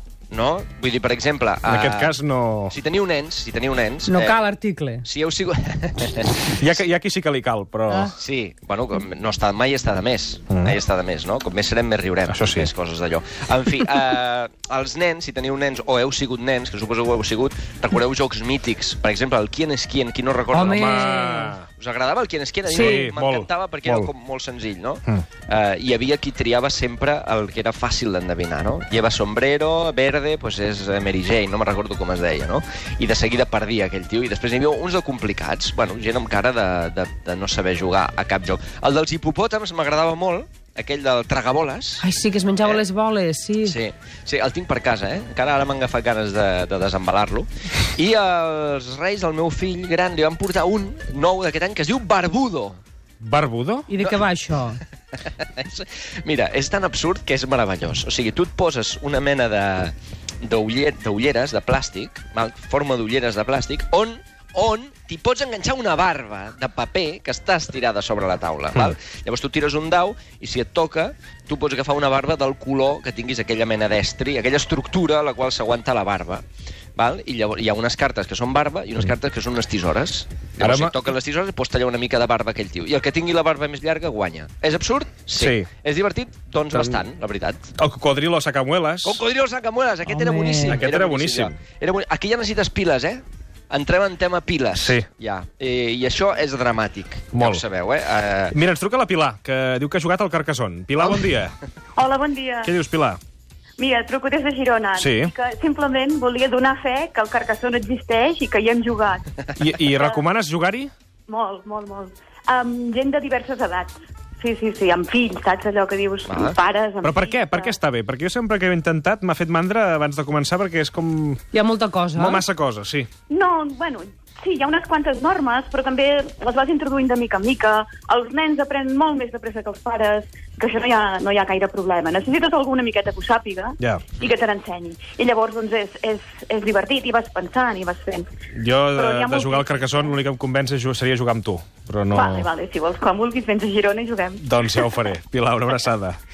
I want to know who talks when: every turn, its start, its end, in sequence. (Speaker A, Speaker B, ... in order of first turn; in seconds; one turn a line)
Speaker A: 0.3-2.1
Speaker B: 1.6-2.7
Speaker A: 2.7-4.4
Speaker C: 4.1-5.0
Speaker A: 5.0-6.8
Speaker B: 6.6-8.1
Speaker A: 8.1-21.2
Speaker B: 10.5-10.8
Speaker B: 12.3-12.7
Speaker C: 20.5-21.6
Speaker B: 20.6-21.6
Speaker A: 21.7-42.0
Speaker B: 22.7-24.1
Speaker C: 22.7-23.1
Speaker C: 42.0-43.8
Speaker A: 43.6-52.8
Speaker B: 53.2-53.9
Speaker C: 53.9-54.8
Speaker A: 55.1-76.4
Speaker A: 77.0-87.6
Speaker B: 80.6-81.0
Speaker B: 85.3-85.7
Speaker B: 86.7-87.0
Speaker B: 87.8-89.2
Speaker A: 89.0-98.6
Speaker C: 90.0-90.8
Speaker B: 90.7-91.6
Speaker B: 94.8-95.1
Speaker B: 97.3-97.6
Speaker B: 98.5-101.5
Speaker D: 102.0-102.7
Speaker B: 102.6-103.2
Speaker D: 103.8-109.3
Speaker B: 105.0-105.3
Speaker B: 109.5-110.9
Speaker D: 109.9-110.2
Speaker D: 111.3-117.7
Speaker A: 116.3-116.5
Speaker B: 117.0-121.4
Speaker C: 121.5-122.4
Speaker B: 122.1-123.1
Speaker D: 123.3-138.3
Speaker B: 133.8-134.1
Speaker B: 138.5-142.5
Speaker D: 138.9-140.0
Speaker D: 142.1-144.4
Speaker B: 144.4-146.2